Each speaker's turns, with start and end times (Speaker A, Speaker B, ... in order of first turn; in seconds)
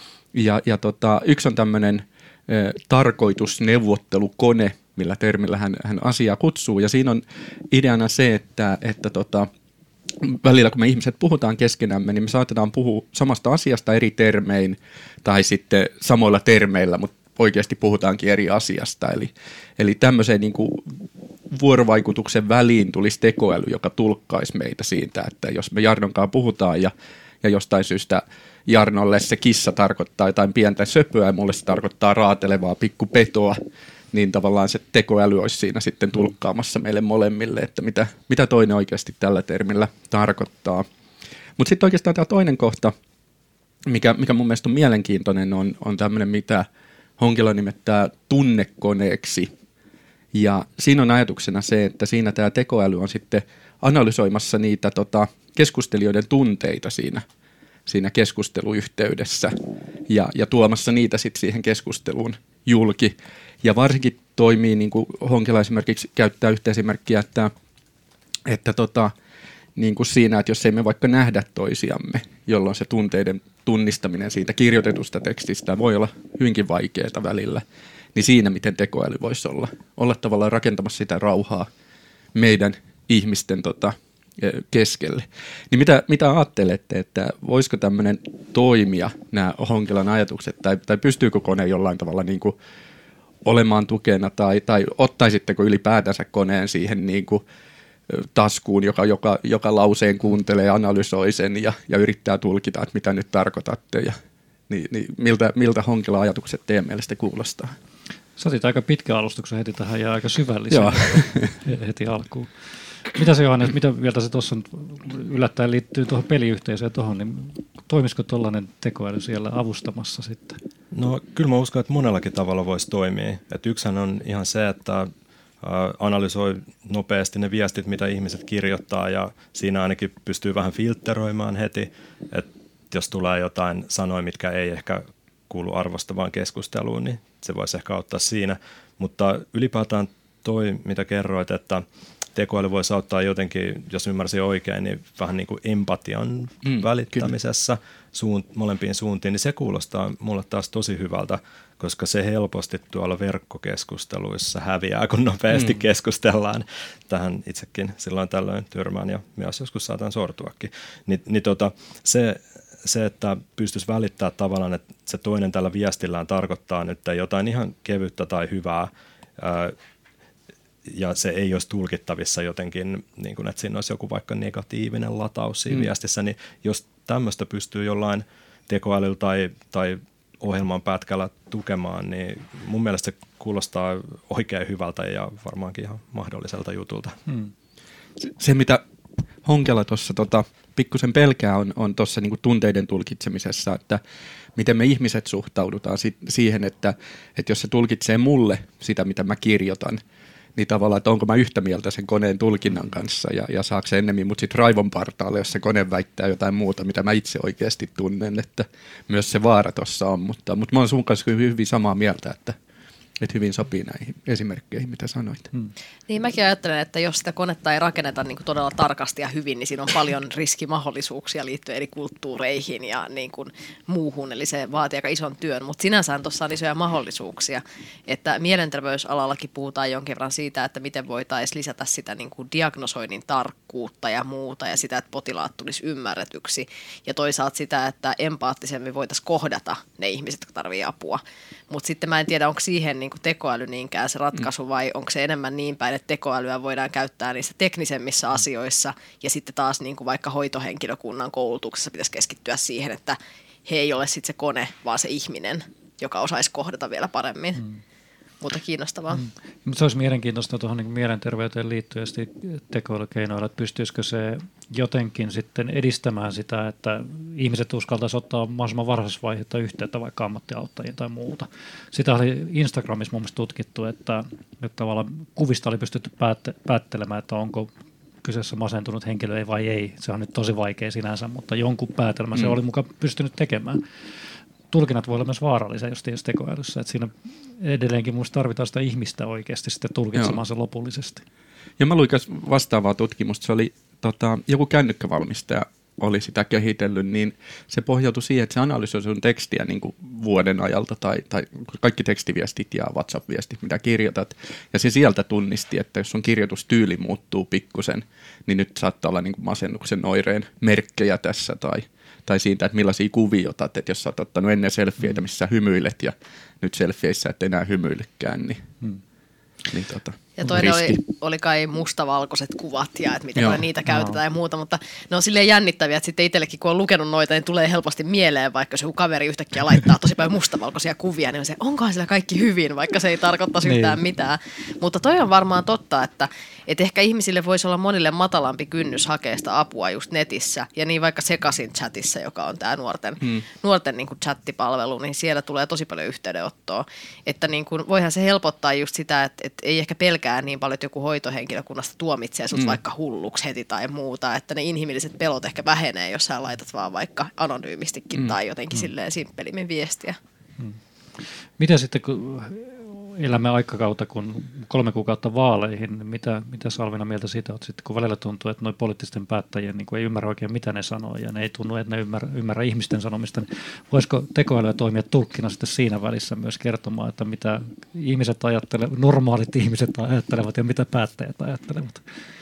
Speaker A: 0.3-9.5, 10.2-20.9, 21.5-33.6, 34.1-40.9, 41.6-42.9, 43.9-46.7, 47.2-49.5, 50.3-57.2, 57.9-59.5, 60.1-67.5, 68.5-69.1, 69.8-77.6, 78.1-81.7, 82.3-92.5, 93.4-97.4, 98.1-104.2, 104.7-107.7, 110.7-111.6, 146.6-147.3, 155.5-155.8, 188.2-188.8, 189.4-194.0, 194.6-200.0, 200.6-212.6, 213.2-215.5, 291.8-318.6, 319.7-321.0, 323.4-323.6
Speaker B: 108.4-112.5, 113.1-120.6, 259.1-277.7, 278.2-283.8, 284.7-291.2, 323.9-324.2, 333.6-334.0, 360.6-382.0
Speaker C: 120.9-125.1, 125.6-141.8, 142.3-169.7, 170.8-187.2
Speaker D: 216.1-257.6, 258.4-259.2, 320.4-360.2